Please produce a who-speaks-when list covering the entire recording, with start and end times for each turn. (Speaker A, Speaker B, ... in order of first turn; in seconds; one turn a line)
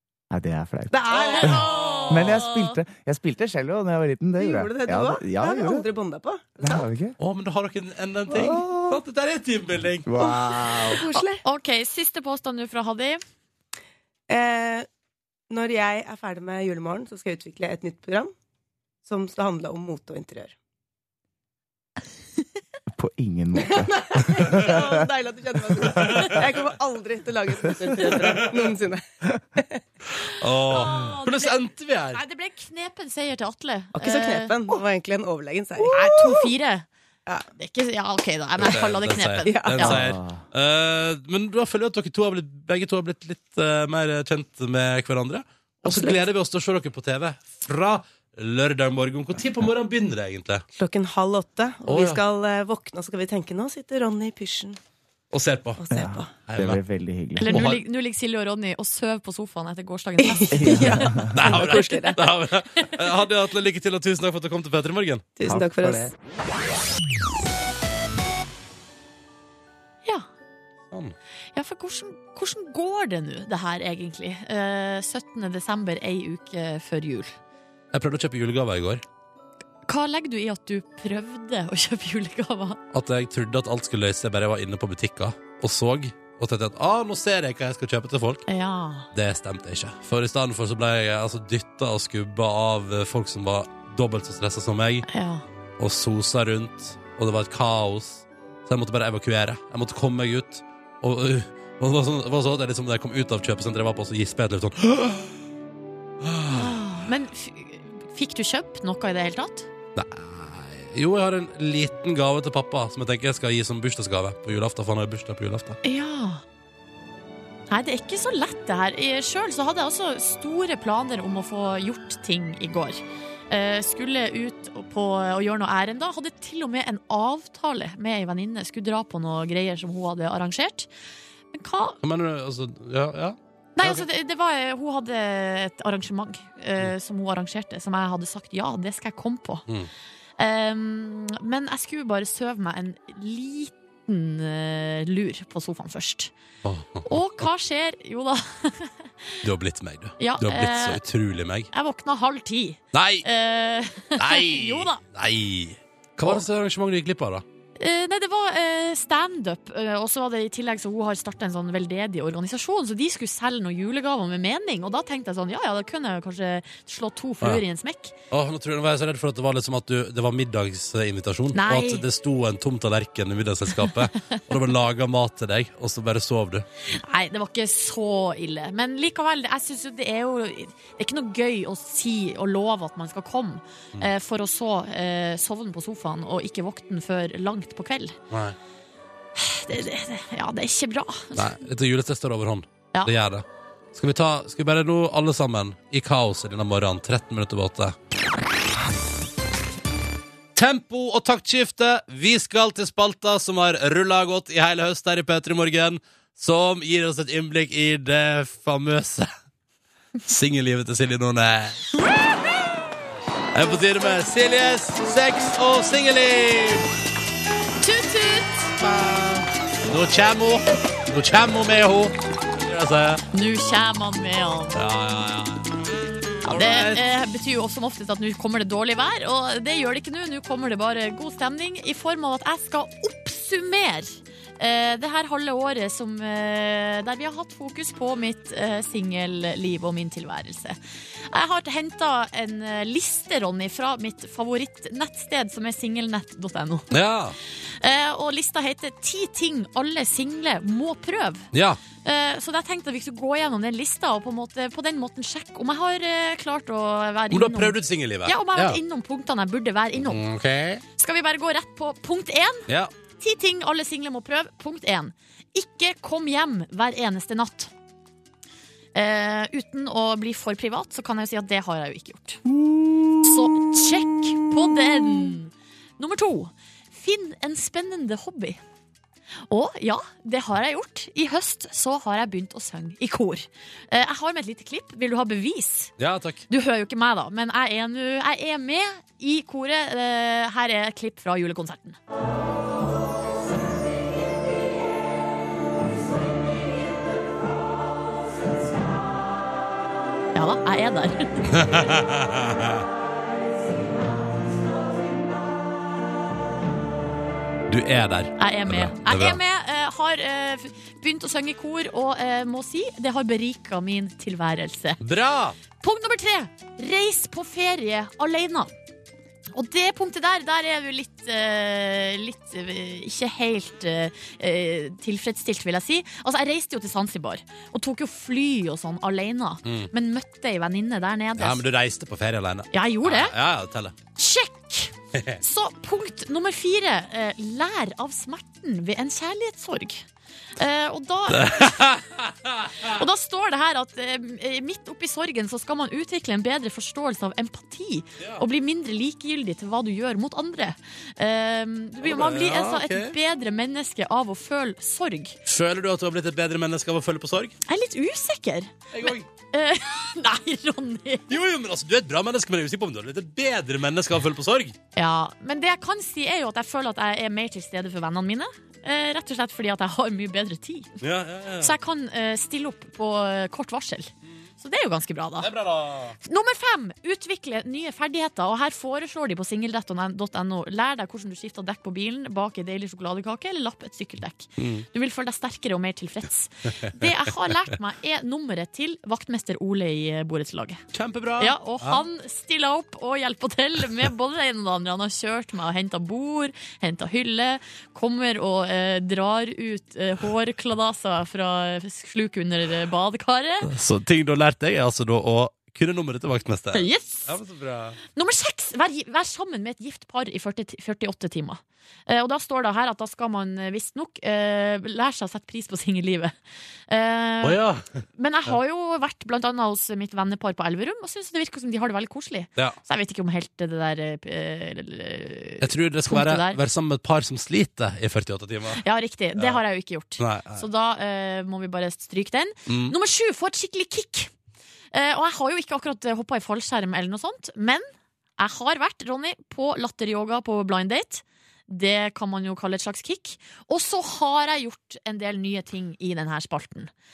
Speaker A: 0.3-1.6
Speaker B: 0.9-1.7
Speaker C: 1.2-2.8
Speaker D: 1.4-2.1
Speaker A: 2.1-5.8
Speaker B: 4.4-6.9
Speaker A: 6.6-7.2
Speaker D: 7.2-10.1
Speaker A: 8.3-9.0
Speaker A: 10.0-11.2
Speaker B: 10.2-11.4
Speaker C: 11.4-13.2
Speaker B: 14.3-14.9
Speaker B: 15.5-18.3
Speaker B: 19.0-20.6
Speaker A: 22.9-25.1
Speaker B: 23.6-29.0
Speaker D: 25.9-26.4
Speaker D: 30.4-32.2
Speaker C: 30.7-31.5
Speaker C: 32.1-34.5
Speaker B: 33.9-36.0
Speaker C: 35.9-36.9
Speaker C: 37.5-40.0
Speaker D: 38.6-50.6
Speaker B: 39.4-39.9
Speaker A: 39.8-40.4
Speaker B: 45.8-46.2
Speaker B: 50.7-54.8
Speaker D: 51.9-52.2
Speaker D: 55.3-55.8
Speaker B: 55.8-56.3
Speaker A: 55.9-57.7
Speaker D: 56.5-56.8
Speaker C: 57.4-61.1
Speaker D: 57.5-57.8
Speaker B: 60.2-62.2
Speaker A: 60.5-61.6
Speaker D: 61.3-65.2
Speaker B: 65.3-66.1
Speaker A: 65.4-66.1
Speaker D: 70.9-71.2
Speaker C: 71.5-77.3
Speaker D: 77.9-79.0
Speaker C: 79.8-82.8
Speaker D: 82.9-88.4
Speaker C: 88.5-89.1
Speaker D: 89.1-95.0
Speaker C: 95.1-95.4
Speaker D: 95.8-105.3
Speaker D: 106.2-106.7
Speaker C: 106.5-109.7
Speaker D: 110.0-115.8
Speaker C: 115.8-116.4
Speaker C: 117.7-130.9
Speaker C: 131.5-132.0
Speaker D: 132.0-134.1
Speaker C: 133.8-139.6
Speaker C: 140.4-146.3
Speaker D: 146.6-147.5
Speaker C: 147.1-149.1
Speaker D: 149.4-151.7
Speaker C: 150.2-151.0
Speaker C: 151.7-155.0
Speaker D: 152.9-153.2
Speaker D: 154.2-157.4
Speaker C: 157.8-168.1
Speaker D: 168.3-176.7
Speaker C: 171.5-172.0
Speaker C: 176.9-188.2
Speaker D: 188.3-188.6
Speaker C: 189.3-191.6
Speaker D: 191.3-197.9
Speaker D: 200.5-209.3
Speaker D: 210.2-211.8
Speaker D: 213.5-216.9
Speaker C: 217.8-218.7
Speaker D: 218.8-223.2
Speaker C: 223.3-224.8
Speaker D: 224.7-225.8
Speaker D: 226.4-227.0
Speaker C: 226.4-240.8
Speaker C: 241.3-247.0
Speaker D: 246.9-247.3
Speaker C: 247.8-251.5
Speaker D: 251.5-251.8
Speaker C: 252.0-260.2
Speaker D: 257.3-258.8
Speaker D: 260.0-260.8
Speaker C: 261.0-262.7
Speaker C: 263.2-267.7
Speaker C: 268.9-272.4
Speaker D: 272.5-273.8
Speaker C: 273.2-278.6
Speaker C: 279.5-285.9
Speaker D: 286.0-286.4
Speaker C: 286.5-292.0
Speaker C: 300.3-301.6
Speaker D: 301.5-302.8
Speaker D: 307.7-309.4
Speaker C: 308.4-315.0
Speaker D: 315.0-315.6
Speaker C: 315.8-318.7
Speaker C: 319.5-331.6
Speaker D: 329.6-329.9
Speaker D: 331.4-333.9
Speaker C: 332.7-333.3
Speaker C: 334.1-341.9
Speaker D: 341.3-343.0
Speaker C: 342.8-355.4
Speaker D: 352.0-353.1
Speaker D: 355.4-357.5
Speaker C: 357.7-361.2
Speaker D: 358.9-359.3
Speaker D: 361.3-364.8
Speaker C: 364.9-371.0
Speaker D: 371.0-371.7
Speaker C: 371.6-375.5
Speaker D: 375.4-376.2
Speaker C: 376.2-390.8
Speaker D: 384.6-384.9
Speaker D: 390.9-392.0
Speaker C: 391.4-403.7
Speaker D: 403.6-408.0
Speaker C: 406.7-407.3
Speaker C: 408.1-416.3
Speaker C: 416.9-417.6
Speaker D: 417.4-418.0
Speaker C: 418.1-426.6
Speaker D: 425.6-428.8
Speaker C: 428.8-434.3
Speaker D: 429.4-429.6
Speaker D: 430.2-430.6
Speaker D: 432.7-432.9
Speaker C: 434.9-437.9
Speaker C: 438.4-446.9